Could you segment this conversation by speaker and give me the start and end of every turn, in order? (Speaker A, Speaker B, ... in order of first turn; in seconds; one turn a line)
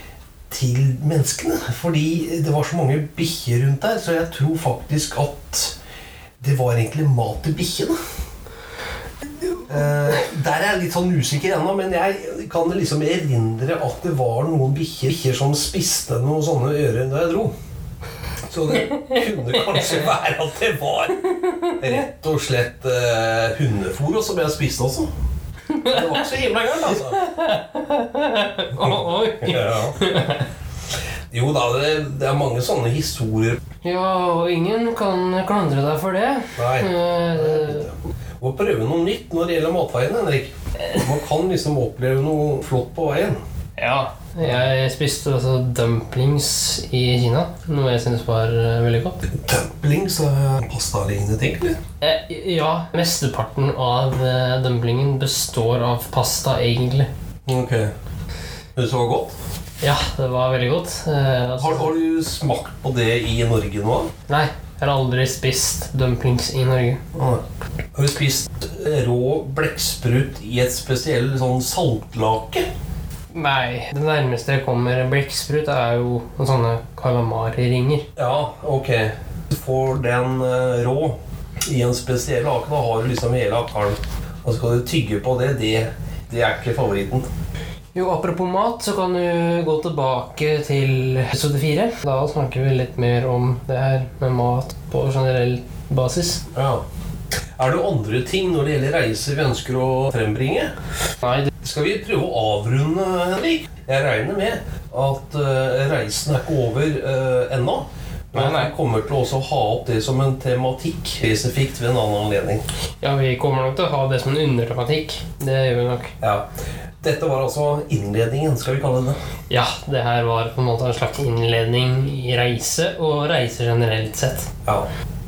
Speaker A: 0.5-5.8
Speaker A: 6.4-8.0
Speaker A: 9.7-17.5
Speaker A: 18.5-25.1
Speaker B: 18.9-20.1
Speaker B: 21.3-21.8
Speaker B: 25.7-26.3
Speaker A: 25.9-27.2
Speaker B: 26.9-30.5
Speaker A: 28.8-30.0
Speaker A: 31.3-33.6
Speaker B: 33.8-37.9
Speaker A: 36.6-43.4
Speaker B: 43.8-49.2
Speaker A: 49.4-51.8
Speaker B: 52.0-57.1
Speaker A: 57.5-57.9
Speaker A: 58.8-59.4
Speaker B: 59.8-61.9
Speaker A: 61.6-64.1
Speaker B: 64.3-67.0
Speaker A: 67.1-67.4
Speaker A: 68.0-72.7
Speaker B: 73.3-78.1
Speaker A: 78.2-87.3
Speaker B: 87.9-96.4
Speaker A: 96.5-96.8
Speaker A: 97.6-100.7
Speaker B: 101.2-101.5
Speaker A: 101.6-112.6
Speaker B: 108.3-108.7
Speaker B: 113.0-116.1
Speaker A: 116.2-116.5
Speaker A: 117.0-119.2
Speaker B: 119.5-124.5